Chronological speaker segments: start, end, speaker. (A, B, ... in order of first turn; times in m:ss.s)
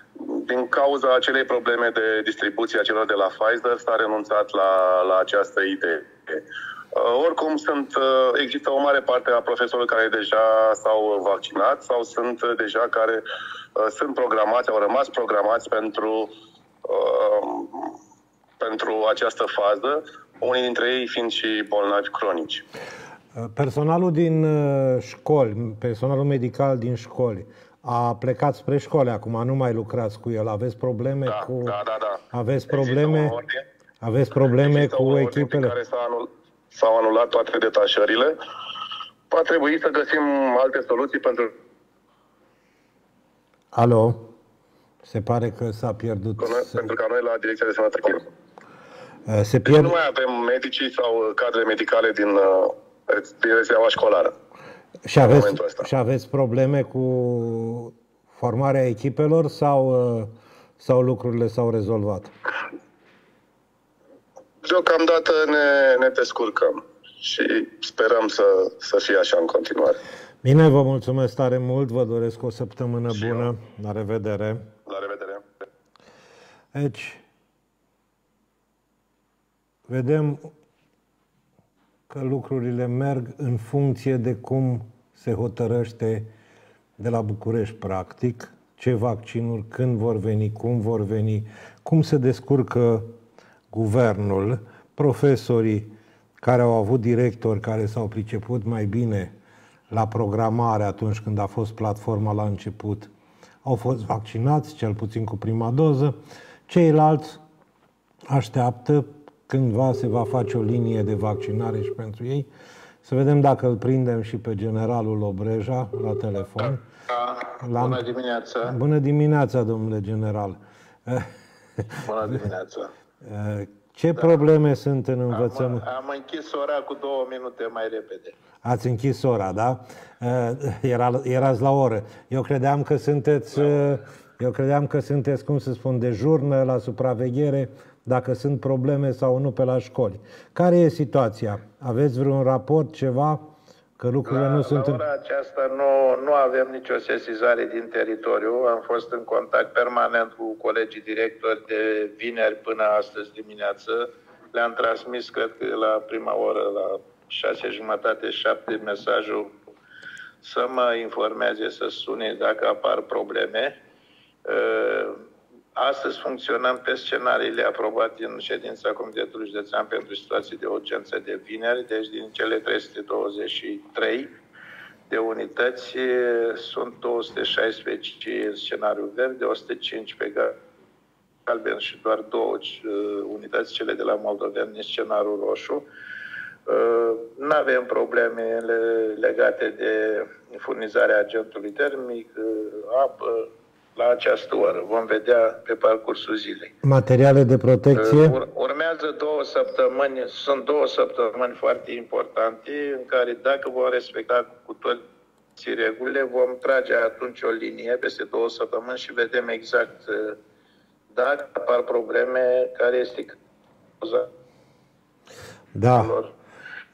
0:00.2-0:13.2 A
0:13.8-0:16.3 A
0:16.8-0:18.0 A
0:18.6-0:22.6 A
0:23.4-0:31.8 B
0:31.3-0:33.6 A
0:32.3-0:33.4 B
0:34.0-0:35.8 B
0:34.6-0:38.4 A
0:39.3-0:41.5 A
0:43.7-0:44.3 B
0:45.0-0:46.8 B
0:46.4-0:48.2 A
0:49.3-0:50.0 B
0:49.6-0:54.3 A
0:55.1-1:02.3 B
0:55.2-0:55.9 A
1:04.6-1:10.0 A
1:10.4-1:14.7 B
1:14.9-1:15.4 A
1:16.7-1:17.2 B
1:19.9-1:20.5 B
1:22.1-1:26.3 B
1:27.0-1:33.1 B
1:33.7-1:39.3 B
1:39.9-1:43.1 B
1:43.6-1:46.2 B
1:46.7-1:47.4 B
1:48.3-1:52.5 B
1:53.0-1:56.8 B
1:56.6-1:58.8 C
1:57.6-1:58.0 B
1:58.6-2:02.0 B
2:02.0-2:02.9 C
2:03.2-2:05.8 B
2:05.3-2:08.4 C
2:08.6-2:23.4 B
2:24.0-2:25.0 B
2:24.2-2:39.6 C
2:40.4-2:43.8 C
2:44.5-2:45.2 C
2:45.8-2:54.3 C
2:55.1-3:00.6 C
3:01.5-3:05.9 C
3:06.7-3:16.7 C
3:16.8-3:18.4 B
3:17.9-3:25.0 C
3:25.6-3:30.4 C
3:31.1-3:33.4 C
3:34.0-3:34.3 C
3:35.7-3:36.2 B
3:35.9-3:36.3 C